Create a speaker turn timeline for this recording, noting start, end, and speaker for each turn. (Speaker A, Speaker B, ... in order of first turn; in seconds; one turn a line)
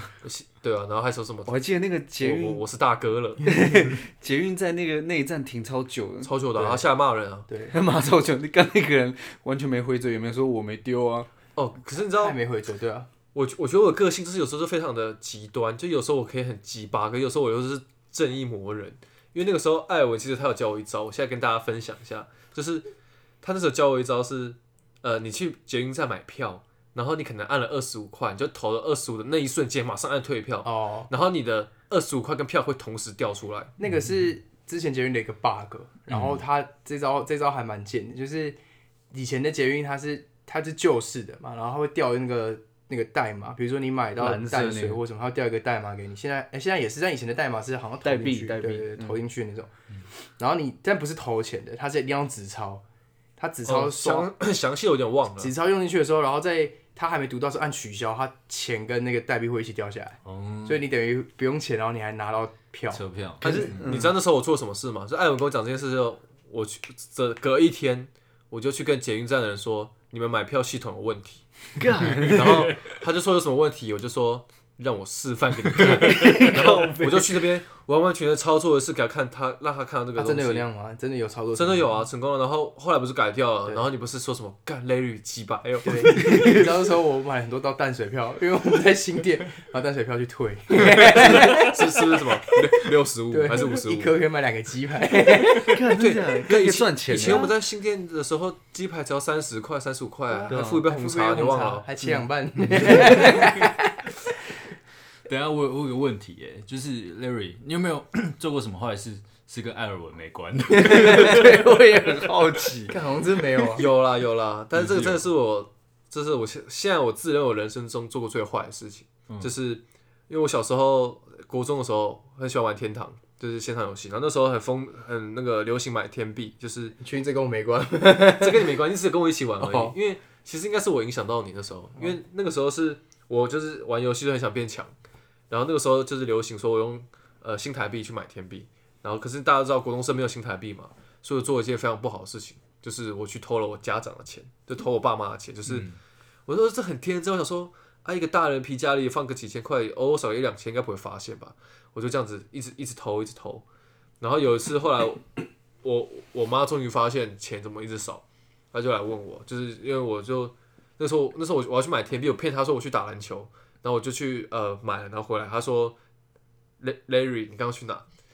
Speaker A: 0.2-1.6
Speaker B: 1.4-2.6
Speaker A: 2.2-3.5
Speaker B: 3.4-6.8
Speaker A: 6.2-7.5
Speaker C: 7.5-7.7
Speaker B: 7.7-11.3
Speaker A: 11.6-12.4
Speaker C: 12.2-13.1
Speaker A: 13.3-22.9
Speaker A: 23.4-33.7
Speaker C: 30.6-31.1
Speaker C: 33.8-38.6
Speaker D: 36.1-36.4
Speaker C: 39.1-49.7
Speaker B: 44.2-45.0
Speaker B: 48.0-49.2
Speaker C: 50.4-52.8
Speaker C: 53.4-54.3
Speaker A: 53.6-55.5
Speaker C: 55.4-63.7
Speaker D: 60.2-60.8
Speaker D: 62.9-63.9
Speaker B: 63.4-64.2
Speaker A: 63.5-71.4
Speaker B: 71.8-72.7
Speaker A: 72.2-80.7
Speaker B: 75.8-77.4
Speaker C: 80.2-82.0
Speaker A: 81.5-86.5
Speaker C: 85.8-91.8
Speaker B: 86.2-86.6
Speaker A: 91.0-94.2
Speaker C: 93.3-95.8
Speaker B: 95.6-97.5
Speaker A: 95.9-101.9
Speaker C: 100.3-104.1
Speaker B: 100.5-100.8
Speaker B: 102.7-103.4
Speaker D: 105.2-111.8
Speaker B: 110.7-113.0
Speaker C: 112.9-113.9
Speaker A: 113.7-127.0
Speaker D: 114.7-115.2
Speaker C: 127.0-128.8
Speaker A: 128.2-134.9
Speaker C: 129.6-129.9
Speaker A: 135.5-145.9
Speaker D: 145.7-146.0
Speaker A: 146.5-153.6
Speaker A: 154.2-165.9
Speaker A: 166.8-168.0